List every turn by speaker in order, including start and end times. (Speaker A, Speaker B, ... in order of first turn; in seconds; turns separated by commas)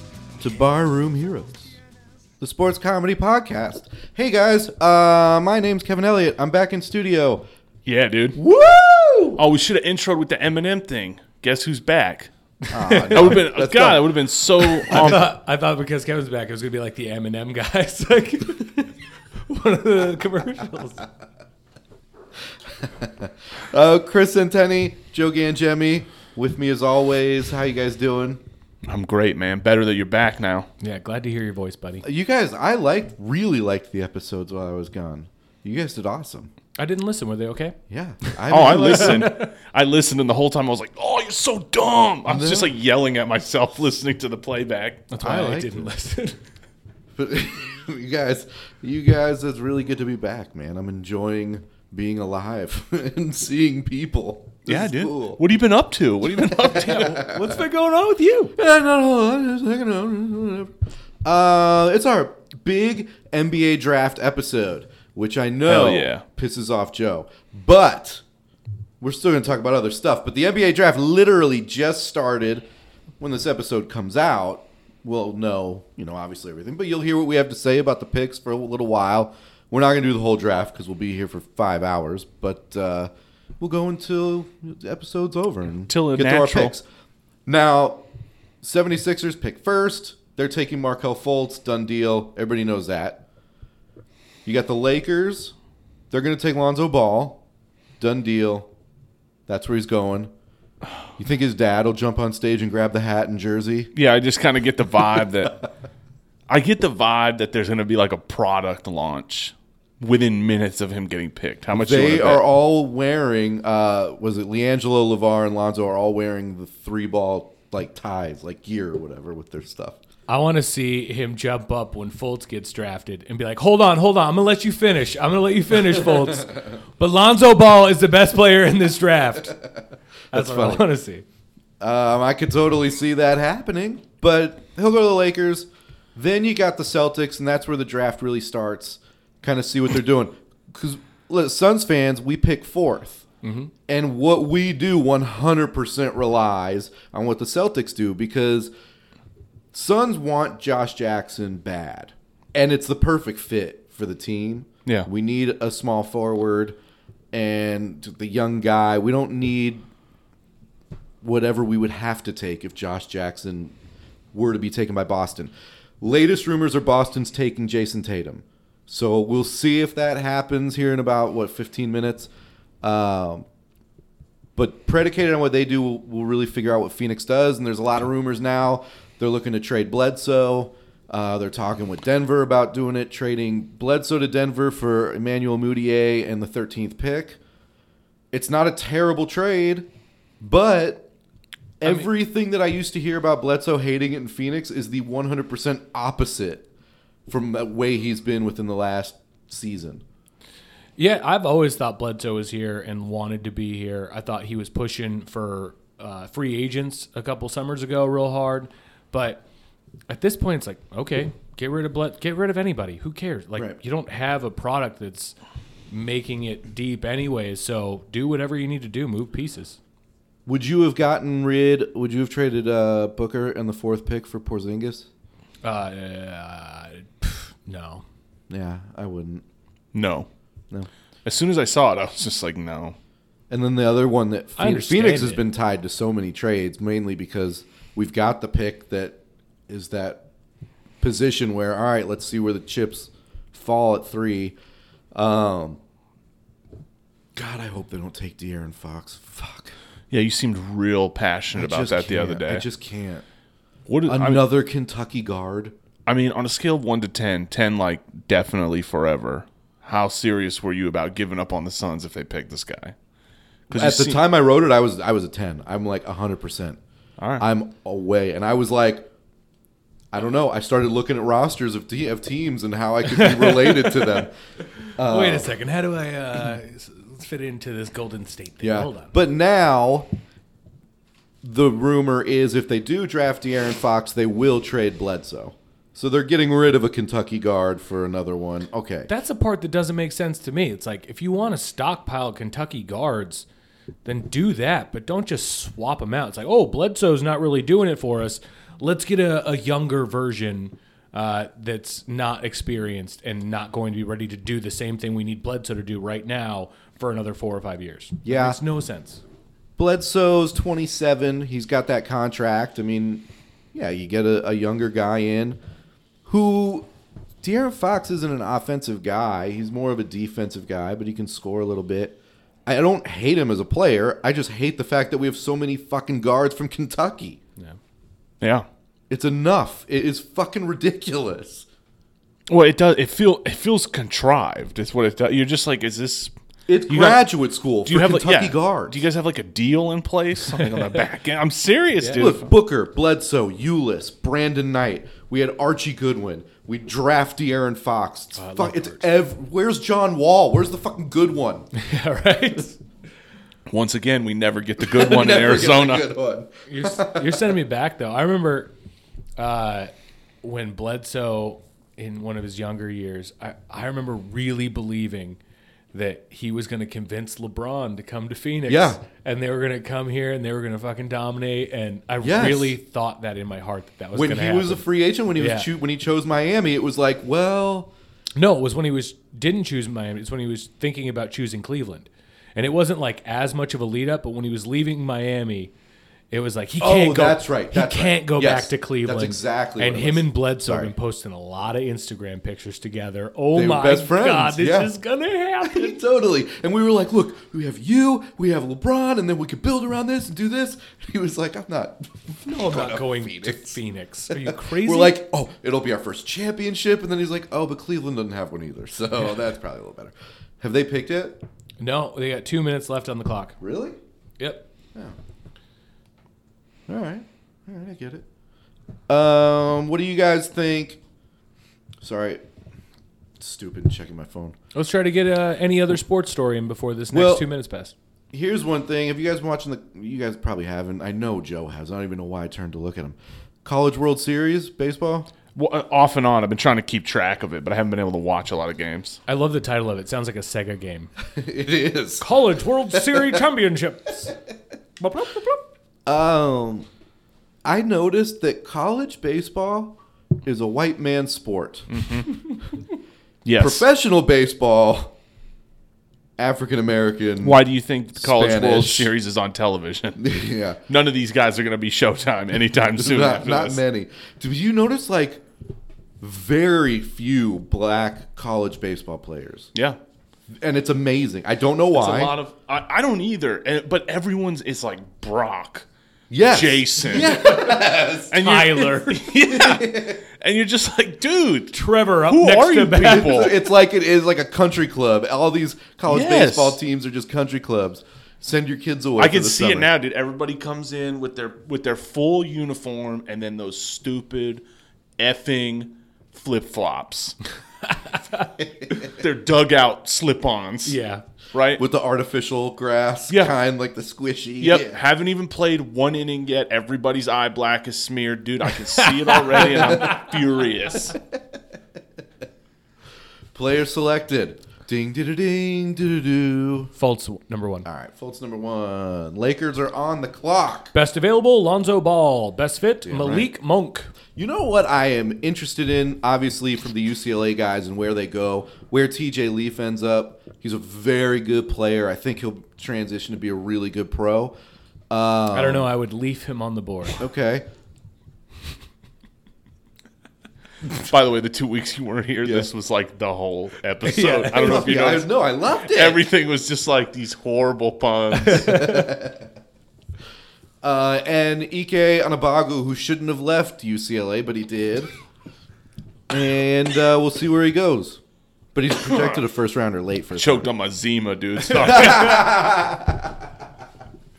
Speaker A: 0.4-1.7, Speaker A: 2.4-7.5, Speaker B: 7.8-8.4, Speaker A: 8.3-9.4, Speaker B: 9.4-12.3, Speaker C: 12.7-13.4, Speaker A: 12.7-14.1, Speaker B: 13.1-15.2, Speaker A: 14.8-15.1, Speaker C: 14.8-18.9, Speaker C: 19.4-21.0, Speaker A: 22.8-28.4, Speaker B: 28.9-30.7, Speaker C: 30.8-32.0, Speaker A: 32.0-36.5, Speaker C: 36.8-37.8, Speaker A: 37.9-39.3, Speaker B: 38.5-45.1, Speaker C: 38.6-39.5, Speaker A: 42.2-42.7, Speaker C: 45.1-46.4, Speaker A: 45.2-45.9, Speaker A: 47.1-55.4, Speaker B: 54.6-57.2, Speaker A: 56.2-57.6, Speaker C: 56.7-58.5, Speaker A: 58.5-60.7, Speaker A: 61.2-68.2, Speaker B: 65.7-66.2, Speaker A: 69.0-72.7, Speaker A: 73.2-86.8, Speaker B: 85.9-86.7, Speaker A: 87.5-88.0, Speaker A: 88.6-93.2, Speaker A: 94.4-95.5, Speaker A: 96.1-97.4, Speaker A: 98.0-98.7, Speaker A: 99.5-100.3, Speaker A: 101.2-103.9, Speaker B: 103.9-105.6, Speaker B: 106.5-112.4, Speaker A: 111.7-120.0, Speaker C: 120.3-129.6, Speaker A: 130.3-130.9, Speaker C: 130.3-131.2, Speaker A: 131.8-143.2, Speaker C: 143.4-143.7, Speaker A: 143.9-148.7, Speaker A: 149.7-156.8, Speaker A: 157.3-159.8, Speaker A: 161.2-163.7, Speaker A: 164.3-172.3, Speaker A: 172.8-173.4, Speaker A: 174.5-187.4, Speaker A: 188.3-189.9, Speaker A: 190.4-191.1, Speaker A: 191.8-196.7, Speaker A: 197.3-200.0, Speaker C: 201.0-209.4, Speaker C: 210.1-215.3, Speaker C: 215.9-219.8, Speaker A: 220.4-225.1, Speaker C: 225.6-228.0, Speaker A: 228.5-229.4, Speaker B: 229.9-230.3, Speaker B: 231.2-232.9, Speaker A: 233.5-239.2, Speaker C: 234.6-235.4, Speaker A: 239.7-240.2, Speaker A: 241.0-244.6, Speaker A: 245.1-245.8, Speaker A: 247.3-249.7, Speaker B: 250.1-252.6, Speaker A: 251.5-253.2, Speaker B: 253.9-254.4, Speaker A: 254.1-255.7, Speaker B: 256.1-262.9, Speaker B: 263.7-264.2, Speaker A: 263.7-266.8, Speaker B: 267.2-267.4, Speaker A: 267.4-269.1, Speaker A: 270.1-274.3, Speaker C: 273.1-274.3, Speaker A: 274.9-275.5, Speaker C: 275.0-279.1, Speaker A: 278.6-280.1, Speaker A: 281.4-289.1, Speaker C: 289.1-293.4, Speaker C: 294.0-309.2, Speaker A: 308.2-308.6, Speaker A: 309.8-315.6, Speaker A: 316.2-316.9, Speaker A: 317.4-327.4, Speaker B: 328.4-328.6, Speaker A: 329.1-331.6, Speaker B: 332.5-336.3, Speaker A: 336.7-339.0, Speaker B: 336.9-337.3, Speaker B: 337.8-342.5, Speaker C: 340.5-341.1, Speaker C: 342.0-342.3, Speaker A: 342.1-351.7, Speaker C: 348.4-349.1, Speaker C: 351.7-352.8, Speaker B: 353.7-356.1, Speaker A: 354.8-357.5, Speaker C: 356.7-358.7, Speaker C: 359.4-359.9, Speaker C: 360.4-365.4, Speaker C: 365.9-375.7, Speaker A: 368.7-369.0, Speaker A: 372.2-372.8, Speaker A: 374.1-377.9, Speaker C: 378.4-385.7, Speaker C: 386.3-396.0, Speaker A: 386.8-390.9, Speaker A: 393.5-394.9, Speaker A: 395.6-403.8, Speaker C: 402.4-405.2, Speaker A: 404.3-411.4, Speaker C: 411.8-413.6, Speaker A: 413.6-414.0, Speaker C: 414.4-414.6, Speaker A: 416.9-418.2, Speaker A: 419.1-421.0, Speaker A: 422.0-422.4, Speaker A: 423.4-424.6, Speaker C: 424.7-427.9, Speaker A: 427.1-427.5, Speaker A: 428.3-435.3, Speaker B: 435.5-439.2, Speaker C: 439.3-441.1, Speaker A: 441.3-442.3, Speaker C: 442.2-444.3, Speaker A: 442.9-443.4, Speaker C: 445.0-445.6, Speaker A: 446.1-446.9, Speaker A: 447.6-452.0, Speaker B: 451.9-452.3, Speaker B: 453.4-453.8, Speaker A: 453.6-455.1, Speaker A: 456.4-457.6, Speaker B: 457.4-460.2, Speaker A: 458.1-459.1, Speaker A: 460.2-460.8, Speaker B: 460.9-463.8, Speaker A: 462.9-465.4, Speaker A: 466.2-469.7, Speaker A: 470.5-472.4, Speaker B: 471.9-475.9, Speaker A: 476.3-478.3, Speaker B: 476.4-483.6, Speaker C: 477.2-477.6, Speaker C: 478.3-479.3, Speaker A: 479.4-480.2, Speaker C: 481.7-483.5, Speaker A: 483.0-489.9, Speaker B: 486.1-486.8, Speaker B: 489.2-494.6, Speaker B: 495.2-497.4, Speaker C: 498.0-498.5, Speaker B: 499.0-501.0, Speaker C: 500.8-501.2, Speaker B: 501.5-501.8, Speaker A: 501.8-505.0, Speaker B: 503.3-503.5, Speaker B: 504.6-511.2, Speaker C: 508.9-510.2, Speaker A: 513.5-516.9, Speaker C: 517.0-517.9, Speaker A: 517.8-520.9, Speaker C: 520.9-524.1, Speaker A: 523.0-523.5, Speaker A: 524.4-534.5, Speaker A: 535.1-535.9, Speaker C: 535.5-537.2, Speaker A: 537.2-537.6, Speaker B: 541.0-548.9, Speaker C: 544.0-544.9, Speaker A: 544.5-546.2, Speaker C: 548.5-549.0, Speaker A: 548.6-549.5, Speaker A: 550.8-555.1, Speaker A: 556.3-558.2, Speaker A: 558.7-560.7, Speaker B: 560.3-562.6, Speaker A: 561.8-563.4